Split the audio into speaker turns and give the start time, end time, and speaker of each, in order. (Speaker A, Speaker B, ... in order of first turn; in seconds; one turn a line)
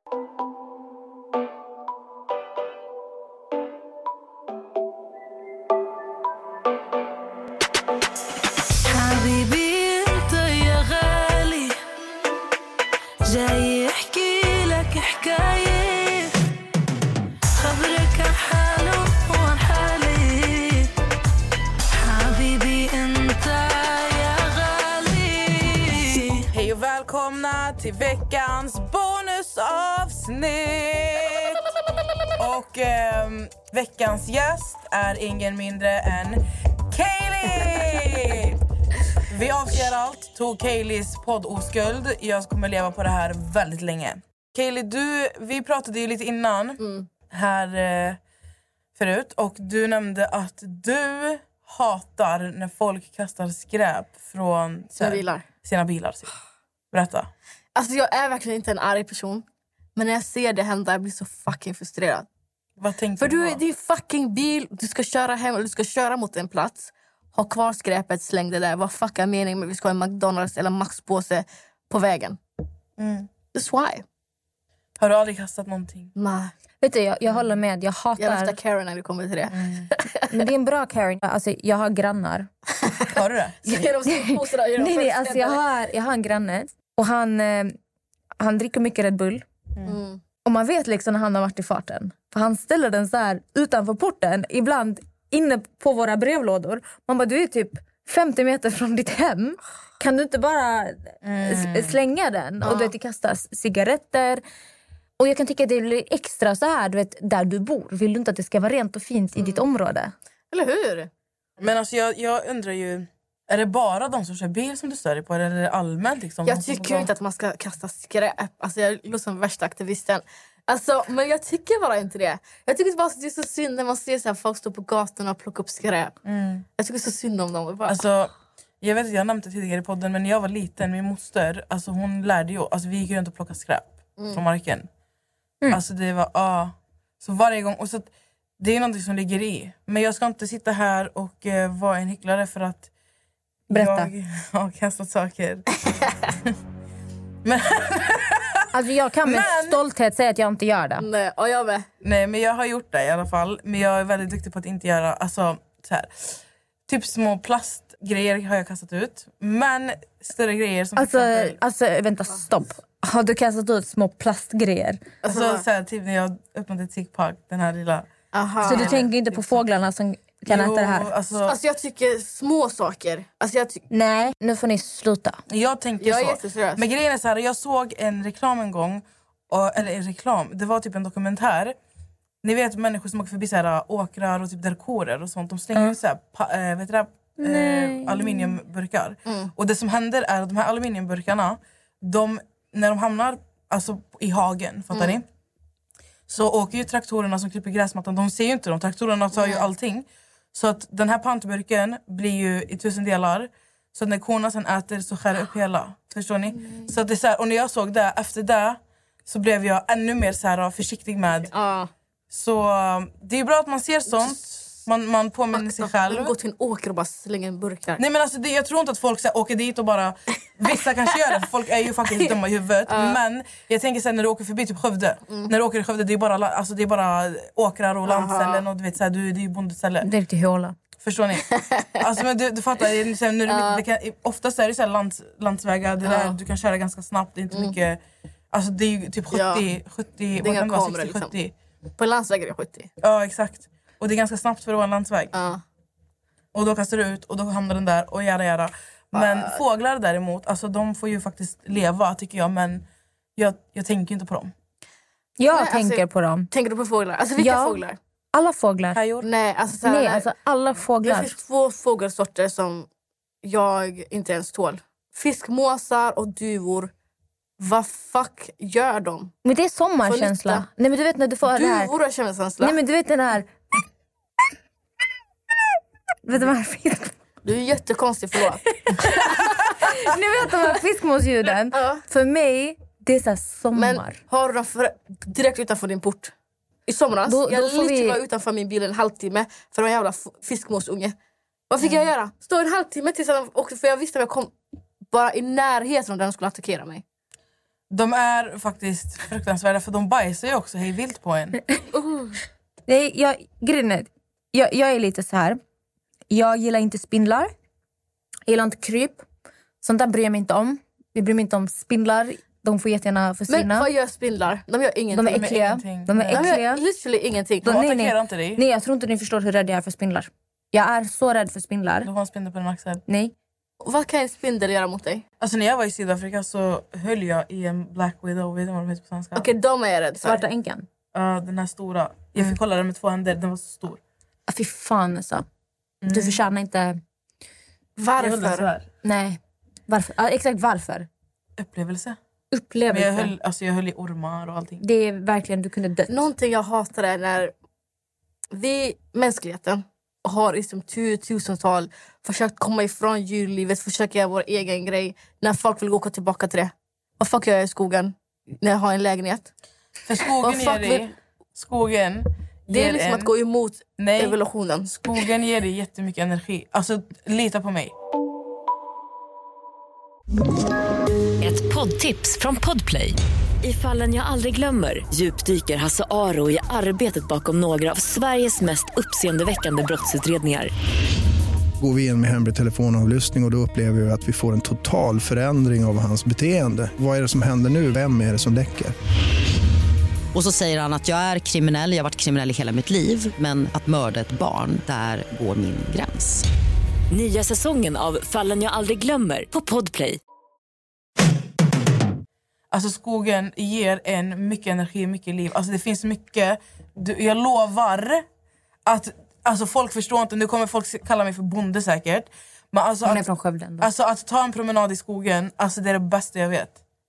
Speaker A: 8.8-11.8
Speaker A: 13.3-16.3
Speaker A: 17.6-20.9
Speaker A: 21.9-26.5
Speaker B: 26.5-31.6
Speaker B: 32.4-38.6
Speaker B: 39.3-48.2
Speaker C: 46.8-47.1
Speaker B: 49.0-56.3
Speaker C: 55.0-55.5
Speaker B: 56.9-57.3
Speaker C: 57.7-59.4
Speaker C: 60.0-62.3
Speaker B: 62.8-63.6
Speaker C: 63.2-72.4
Speaker B: 73.0-73.3
Speaker C: 73.5-74.0
Speaker B: 75.0-76.1
Speaker C: 76.2-76.5
Speaker D: 76.8-78.6
Speaker C: 78.2-80.3
Speaker B: 79.5-79.9
Speaker D: 80.3-82.5
Speaker B: 83.1-83.6
Speaker C: 83.6-85.6
Speaker D: 83.7-87.7
Speaker D: 88.4-89.4
Speaker C: 89.8-90.2
Speaker D: 90.4-104.4
Speaker B: 101.2-101.9
Speaker C: 102.6-102.9
Speaker D: 105.2-110.1
Speaker C: 110.5-111.1
Speaker B: 111.6-117.1
Speaker C: 116.4-126.1
Speaker B: 126.2-126.7
Speaker C: 126.8-128.0
Speaker B: 127.9-134.9
Speaker B: 135.7-138.1
Speaker B: 138.6-142.9
Speaker D: 143.7-144.1
Speaker B: 143.7-145.9
Speaker B: 147.4-148.6
Speaker D: 148.7-151.1
Speaker B: 149.2-149.8
Speaker C: 151.0-151.9
Speaker B: 152.0-161.6
Speaker D: 161.0-165.0
Speaker C: 165.2-165.6
Speaker B: 165.3-168.1
Speaker C: 168.3-169.0
Speaker B: 168.6-169.6
Speaker D: 168.6-171.1
Speaker B: 170.5-171.6
Speaker C: 171.4-173.8
Speaker D: 173.9-175.4
Speaker B: 175.5-181.8
Speaker C: 176.0-176.8
Speaker B: 182.4-195.2
Speaker D: 187.4-188.6
Speaker C: 194.9-195.2
Speaker B: 196.3-211.5
Speaker C: 199.3-199.6
Speaker C: 211.5-211.9
Speaker B: 212.3-216.3
Speaker C: 215.5-218.0
Speaker B: 218.0-230.1
Speaker C: 222.9-223.2
Speaker C: 228.1-228.6
Speaker D: 230.0-230.8
Speaker B: 231.0-238.0
Speaker C: 231.5-231.9
Speaker C: 233.5-233.8
Speaker C: 236.0-236.3
Speaker B: 238.5-241.5
Speaker C: 239.3-239.6
Speaker C: 240.4-241.3
Speaker C: 242.0-242.9
Speaker B: 243.0-245.3
Speaker C: 245.3-245.6
Speaker B: 246.5-252.8
Speaker C: 249.1-249.6
Speaker B: 253.3-254.5
Speaker D: 255.4-256.5
Speaker C: 255.5-258.0
Speaker D: 257.4-257.8
Speaker D: 258.3-259.0
Speaker B: 258.9-259.3
Speaker C: 259.2-260.3
Speaker D: 259.8-261.3
Speaker C: 261.0-262.9
Speaker C: 263.4-266.9
Speaker C: 267.6-269.3
Speaker D: 269.4-271.9
Speaker C: 270.1-270.6
Speaker C: 271.5-272.8
Speaker D: 272.6-273.5
Speaker D: 276.2-277.1
Speaker C: 277.4-279.7
Speaker D: 278.7-284.2
Speaker C: 281.7-282.0
Speaker C: 283.7-286.3
Speaker C: 286.9-291.1
Speaker D: 287.2-288.2
Speaker C: 291.7-294.5
Speaker C: 295.1-297.0
Speaker B: 297.9-301.6
Speaker C: 301.9-302.3
Speaker D: 302.9-305.6
Speaker D: 306.3-307.5
Speaker D: 308.5-309.2
Speaker D: 309.8-313.9
Speaker C: 313.5-315.5
Speaker D: 315.1-316.8
Speaker B: 315.2-316.6
Speaker C: 316.3-317.7
Speaker D: 317.6-322.1
Speaker B: 317.6-318.6
Speaker B: 322.0-323.0
Speaker D: 323.1-323.3
Speaker C: 323.8-325.2
Speaker B: 325.4-329.5
Speaker C: 329.4-330.4
Speaker D: 330.2-330.9
Speaker B: 331.1-334.0
Speaker D: 334.5-335.4
Speaker B: 336.0-336.4
Speaker D: 336.1-337.0
Speaker C: 338.0-338.7
Speaker B: 338.2-338.9
Speaker D: 339.0-341.1
Speaker B: 341.6-342.2
Speaker D: 342.5-343.3
Speaker B: 342.9-344.8
Speaker D: 344.8-346.3
Speaker C: 346.1-347.5
Speaker C: 348.5-359.5
Speaker B: 360.1-363.3
Speaker C: 360.4-361.1
Speaker C: 362.7-364.9
Speaker B: 364.0-364.4
Speaker B: 364.9-367.9
Speaker E: 371.4-380.7
Speaker F: 381.8-388.9
Speaker G: 390.3-396.4
Speaker E: 397.1-400.2
Speaker B: 402.7-408.2
Speaker B: 408.9-413.2
Speaker D: 413.0-413.9
Speaker B: 413.8-416.8